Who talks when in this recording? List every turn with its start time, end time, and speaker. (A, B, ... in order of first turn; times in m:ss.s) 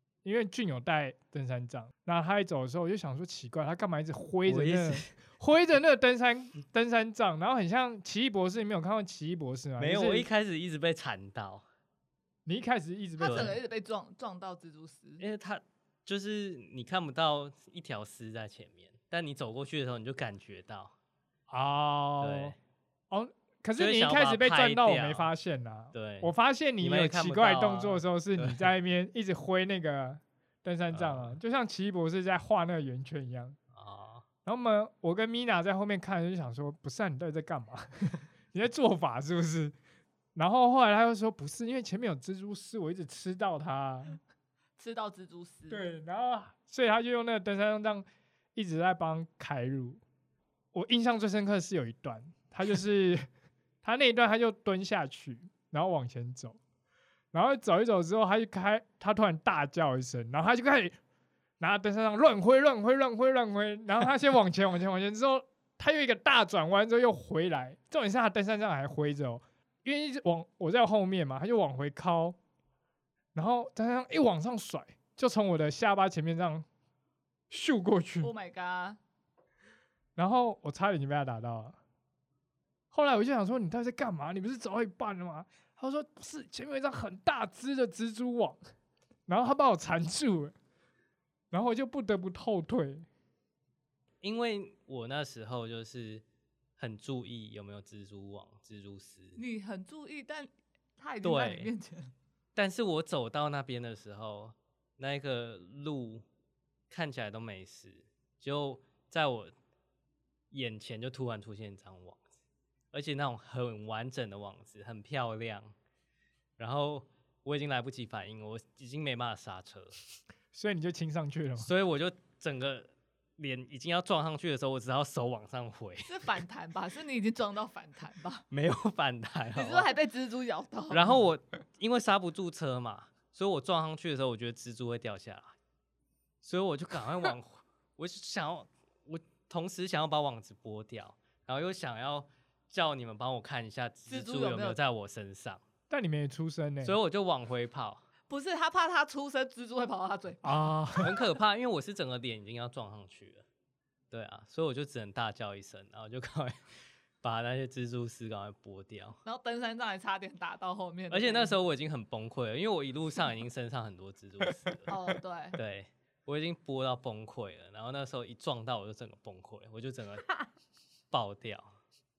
0:00.2-0:10.3 A
0:04.4-0:05.1 B
0:09.8-0:11.6 B
0:12.4-0:13.6 A
0:13.2-0:15.2 C
0:13.2-0:13.6 B
0:15.2-0:20.9 B
0:21.5-0:22.5 A
0:22.2-0:22.6 B
0:23.1-0:33.6 A
0:23.8-0:25.3 B
0:25.9-0:28.7 B
0:30.9-0:31.4 B
0:33.7-0:34.2 B
0:34.4-0:39.8 A
0:40.3-0:44.2 A
0:44.8-0:45.8 C
0:45.7-0:50.0 A
0:50.7-0:53.3 A
0:53.8-0:56.6 A
0:57.3-1:01.0 A
1:01.6-1:12.4 A
1:13.3-1:16.6 A
1:17.5-1:18.3 A
1:18.2-1:19.0 C
1:20.2-1:21.8 A
1:22.9-1:28.6 A
1:29.3-1:30.5 A
1:31.5-1:33.1 A
1:34.2-1:36.2 B
1:36.8-1:39.4 B
1:39.4-1:42.1 C
1:41.2-1:41.7 B
1:42.6-1:46.2 B
1:46.9-1:49.5 B
1:50.5-1:52.2 B
1:52.9-1:55.7 B
1:56.6-1:59.9 B
2:00.5-2:01.7 A
2:01.6-2:06.3 B
2:06.1-2:08.4 C
2:08.5-2:09.9 B
2:09.5-2:11.2 C
2:10.9-2:15.6 B
2:16.4-2:25.6 B
2:24.1-2:24.8 C
2:25.9-2:27.0 A
2:26.8-2:28.0 B
2:28.3-2:31.0 C
2:30.4-2:31.1 A
2:31.0-2:33.4 B
2:34.1-2:36.6 B
2:37.2-2:39.2 B
2:39.2-2:41.6 C
2:41.1-2:45.0 B
2:44.9-2:45.6 C
2:45.5-2:50.4 B
2:51.1-2:51.8 B